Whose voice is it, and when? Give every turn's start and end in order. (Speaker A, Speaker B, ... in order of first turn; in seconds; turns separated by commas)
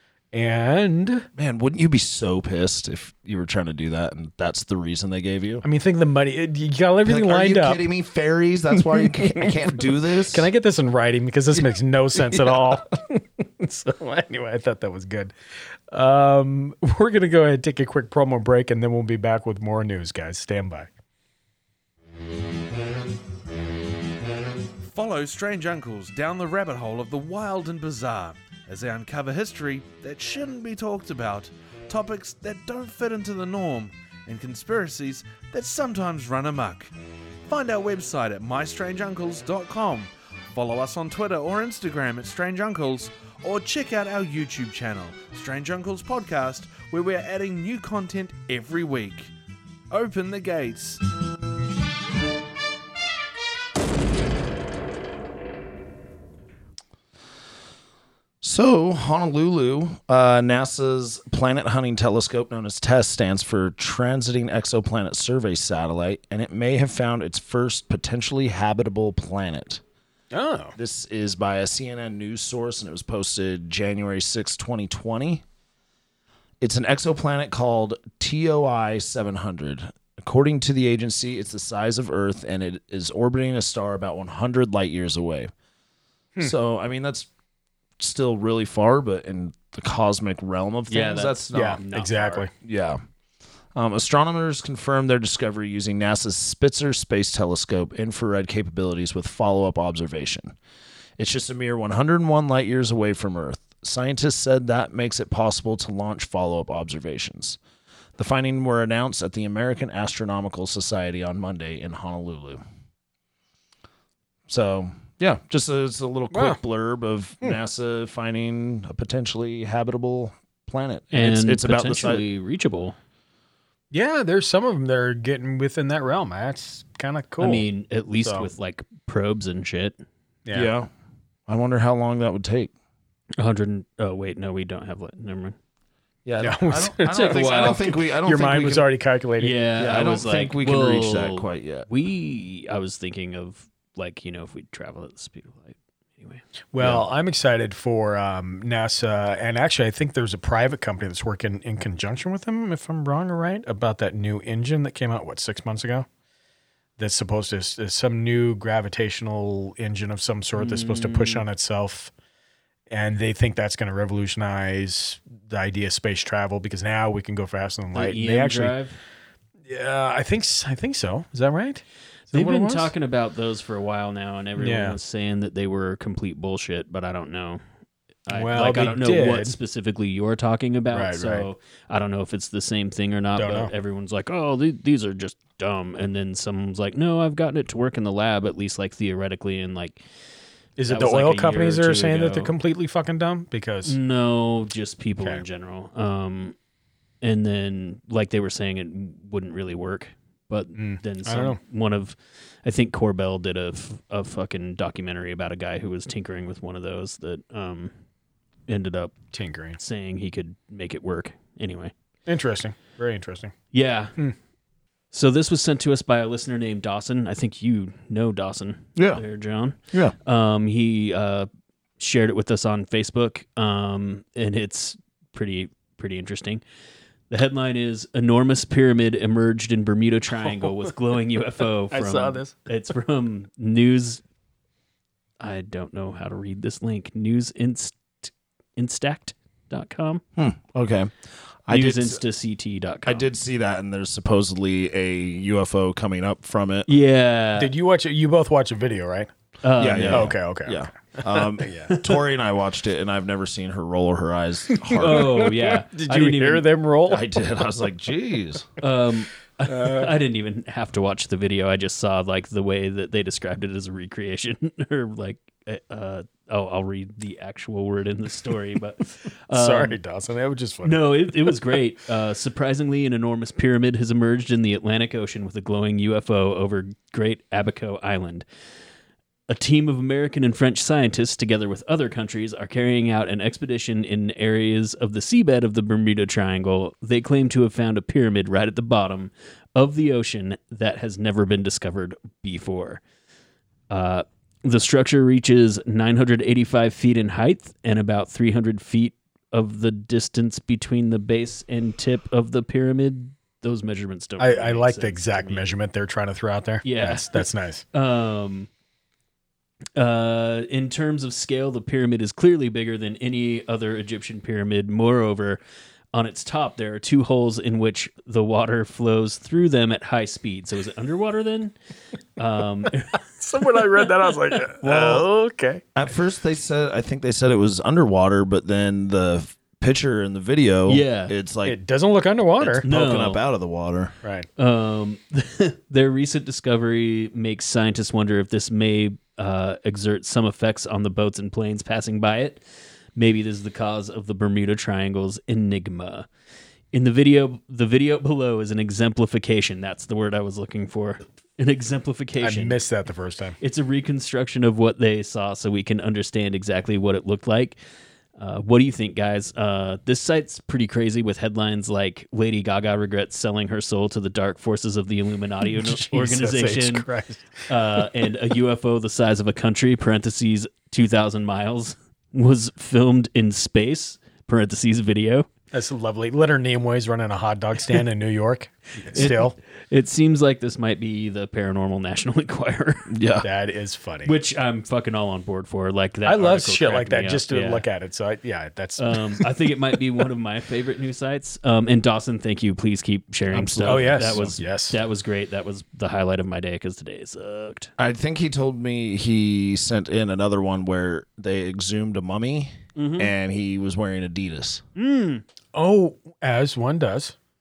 Speaker A: 0.3-1.3, Speaker B: 1.4-5.6, Speaker A: 5.6-7.8, Speaker B: 7.0-10.5, Speaker A: 8.7-15.3, Speaker A: 15.9-20.9, Speaker C: 24.8-36.9, Speaker C: 37.5-49.3, Speaker C: 49.9-51.0, Speaker B: 58.4-69.8, Speaker A: 70.3-70.8, Speaker B: 70.8-75.4, Speaker B: 76.6-85.5, Speaker B: 86.4-87.3, Speaker B: 88.0-91.8, Speaker D: 90.9-92.5, Speaker A: 91.5-92.5, Speaker B: 92.6-93.0, Speaker B: 93.7-100.5, Speaker B: 101.2-107.6, Speaker B: 108.2-112.6, Speaker B: 114.5-122.2, Speaker A: 116.3-116.6, Speaker D: 121.1-123.0, Speaker A: 123.9-127.7, Speaker D: 127.4-130.0, Speaker A: 128.2-128.5, Speaker A: 130.4-130.7, Speaker B: 130.5-130.9, Speaker B: 131.5-132.7, Speaker D: 133.4-135.6, Speaker B: 136.2-138.9, Speaker A: 136.4-139.6, Speaker D: 137.1-137.9, Speaker D: 139.4-146.4, Speaker B: 139.8-141.9, Speaker A: 146.7-156.1, Speaker B: 146.8-147.0, Speaker A: 157.0-162.1, Speaker D: 160.6-161.4, Speaker A: 162.9-168.8, Speaker D: 167.9-169.0, Speaker A: 169.7-172.9, Speaker D: 172.3-177.6, Speaker A: 174.6-175.0, Speaker D: 178.3-190.0, Speaker A: 178.3-179.6, Speaker A: 180.9-181.5, Speaker A: 183.3-183.7, Speaker A: 190.8-194.0, Speaker D: 190.9-192.5, Speaker D: 193.8-196.5, Speaker D: 197.2-207.9, Speaker A: 200.7-201.6, Speaker D: 208.7-209.1, Speaker A: 209.3-209.8, Speaker D: 209.8-211.9, Speaker A: 212.2-213.5, Speaker D: 213.7-214.1, Speaker D: 215.1-221.5, Speaker B: 218.9-219.2, Speaker D: 222.0-226.6, Speaker D: 227.3-234.2, Speaker A: 231.9-232.7, Speaker D: 235.4-240.2, Speaker B: 240.4-241.1, Speaker B: 241.7-242.2, Speaker D: 241.7-243.2, Speaker B: 243.1-246.9, Speaker D: 246.9-247.7, Speaker A: 247.6-249.3, Speaker D: 249.6-250.3, Speaker B: 249.8-255.5, Speaker A: 250.1-252.0, Speaker A: 254.7-257.3, Speaker D: 255.0-256.6, Speaker B: 257.1-258.8, Speaker D: 258.8-270.0, Speaker A: 259.7-260.1, Speaker A: 269.5-271.6, Speaker D: 270.8-278.4, Speaker D: 279.5-293.0, Speaker D: 293.9-305.7, Speaker A: 304.4-307.8, Speaker D: 306.8-308.7, Speaker D: 309.9-315.6, Speaker D: 316.1-321.7, Speaker D: 322.4-324.0, Speaker A: 323.4-325.8, Speaker D: 324.7-325.2, Speaker B: 325.9-331.8, Speaker D: 330.9-331.3, Speaker A: 331.6-332.8, Speaker B: 332.6-334.1, Speaker D: 332.8-333.4, Speaker A: 334.2-334.5, Speaker D: 334.6-342.6, Speaker D: 343.1-346.3, Speaker D: 346.9-352.8, Speaker A: 352.4-353.6, Speaker D: 353.6-357.8, Speaker D: 358.4-367.1, Speaker A: 365.6-368.0, Speaker D: 367.7-375.5, Speaker A: 375.7-379.6, Speaker D: 379.1-383.1, Speaker B: 383.1-383.4, Speaker A: 383.4-384.3, Speaker D: 384.2-387.8, Speaker A: 386.2-389.5, Speaker D: 389.0-397.9, Speaker B: 393.5-394.5, Speaker A: 393.8-395.0, Speaker B: 398.0-404.8, Speaker D: 402.9-403.3, Speaker D: 404.9-405.4, Speaker A: 405.7-407.3